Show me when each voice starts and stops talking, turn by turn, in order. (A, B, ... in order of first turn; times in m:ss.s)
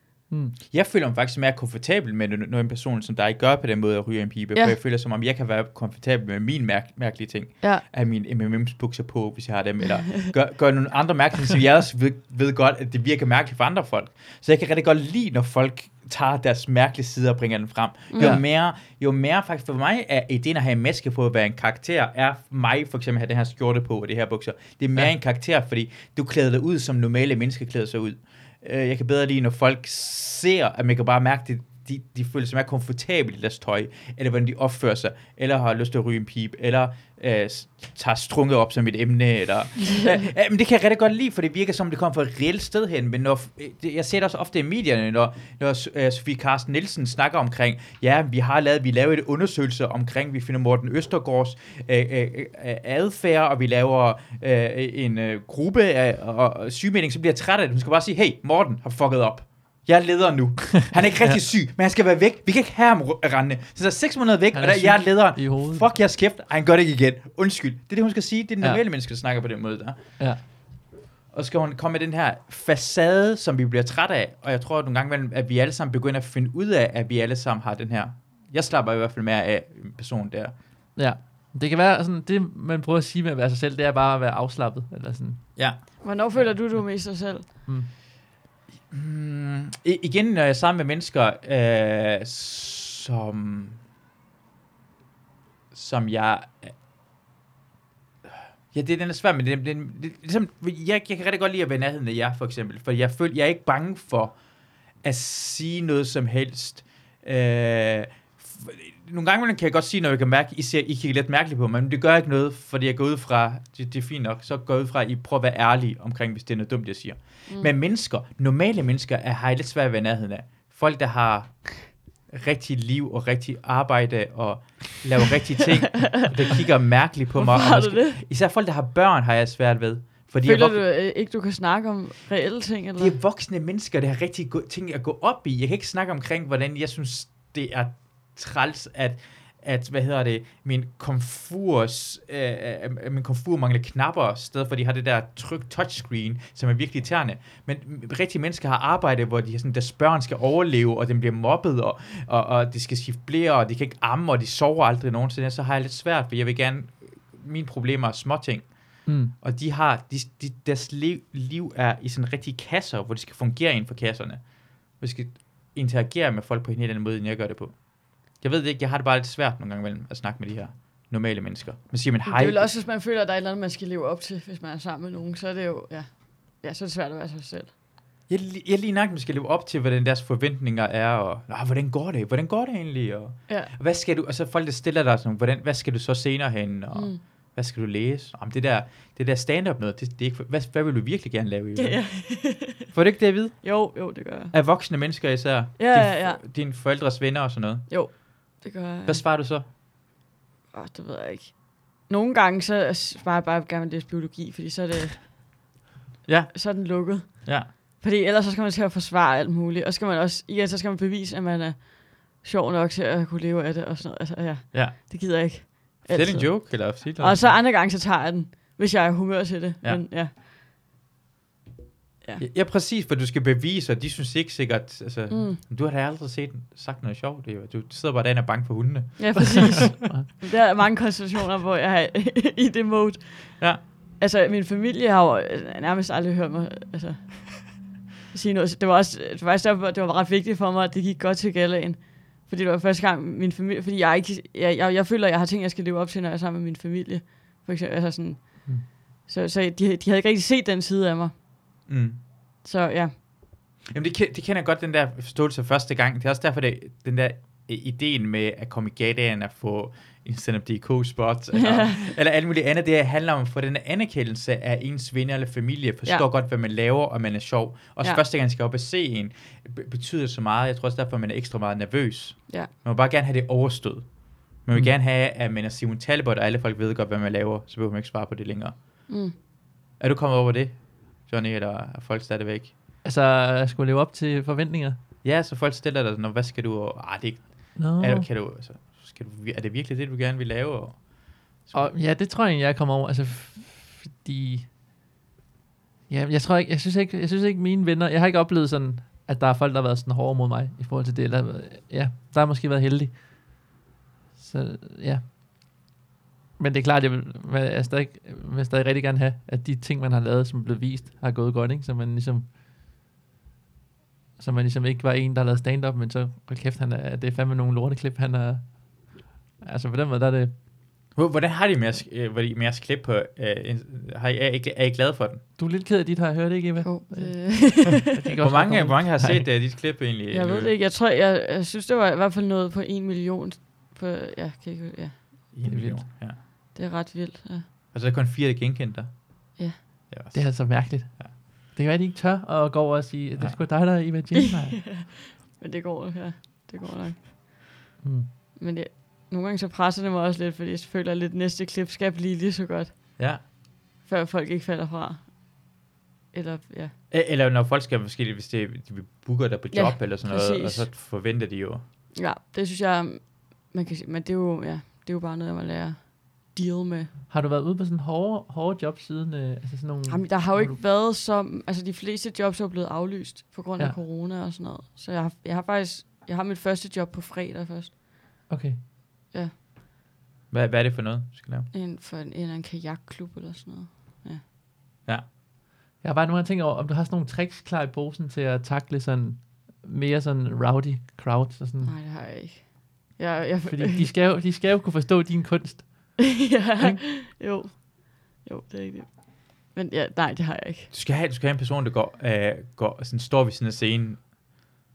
0:00.3-0:00.5 A
0:00.7-1:10.0 B
0:18.1-0:18.4 C
0:18.2-0:18.4 A
1:04.5-1:06.0 A
1:11.3-1:20.6 B
1:21.0-1:27.0 A
1:25.6-1:25.8 B
1:26.0-1:27.5 C
1:28.9-1:33.8 B
1:35.7-1:36.7 B
1:38.7-1:44.4 B
1:45.0-2:10.8 B
2:06.0-2:06.3 C
2:07.4-2:08.2 C
2:10.4-2:13.2 C
2:13.0-2:52.7 B
2:39.0-2:39.3 A
2:52.2-2:57.7 C
2:58.3-3:12.2 B
3:06.9-3:07.2 C
3:11.8-3:12.9 C
3:12.9-3:13.7 B
3:13.6-3:14.5 C
3:14.5-3:17.9 B
3:15.8-3:16.4 C
3:17.9-3:19.2 C
3:19.0-3:19.6 B
3:20.7-3:25.3 C
3:26.2-3:27.7 B
3:26.5-3:40.3 C
3:36.1-3:37.6 B
3:42.4-3:49.9 B
3:45.3-3:45.6 C
3:49.2-3:57.8 C
3:49.3-3:50.3 A
3:53.6-3:53.8 B
3:58.3-4:11.3 C
4:11.9-4:12.2 B
4:12.6-4:13.1 C
4:13.8-4:38.8 B
4:21.6-4:22.0 C
4:39.1-4:39.3 C
4:40.0-4:42.7 B
4:43.0-4:45.0 A
4:45.2-4:51.9 B
4:47.8-4:48.3 A
4:51.7-4:54.7 A
4:56.1-5:03.7 A
5:04.4-5:05.2 A
5:06.6-5:12.5 A
5:14.4-5:20.5 A
5:21.1-5:25.4 B
5:25.6-5:29.4 A
5:26.8-5:28.1 C
5:28.4-5:30.7 B
5:30.3-5:35.5 C
5:35.5-5:36.4 B
5:35.6-5:36.0 A
5:36.7-5:37.6 C
5:37.9-5:39.2 B
5:40.1-5:41.3 B
5:40.3-5:44.8 A
5:44.3-5:47.6 C
5:48.0-5:48.3 A
5:48.6-5:52.9 C
5:53.2-5:53.4 B
5:54.0-5:55.3 C
5:56.3-5:56.9 C
5:57.1-6:01.8 B
5:59.7-6:00.9 C
6:02.1-6:07.1 C
6:07.3-6:10.8 A
6:10.1-6:18.0 C
6:18.5-6:18.8 A
6:20.5-6:21.7 B
6:21.7-6:24.4 C
6:26.0-6:31.9 A
6:31.8-6:34.0 C
6:33.7-6:36.2 A
6:36.2-6:40.9 C
6:40.9-6:44.4 B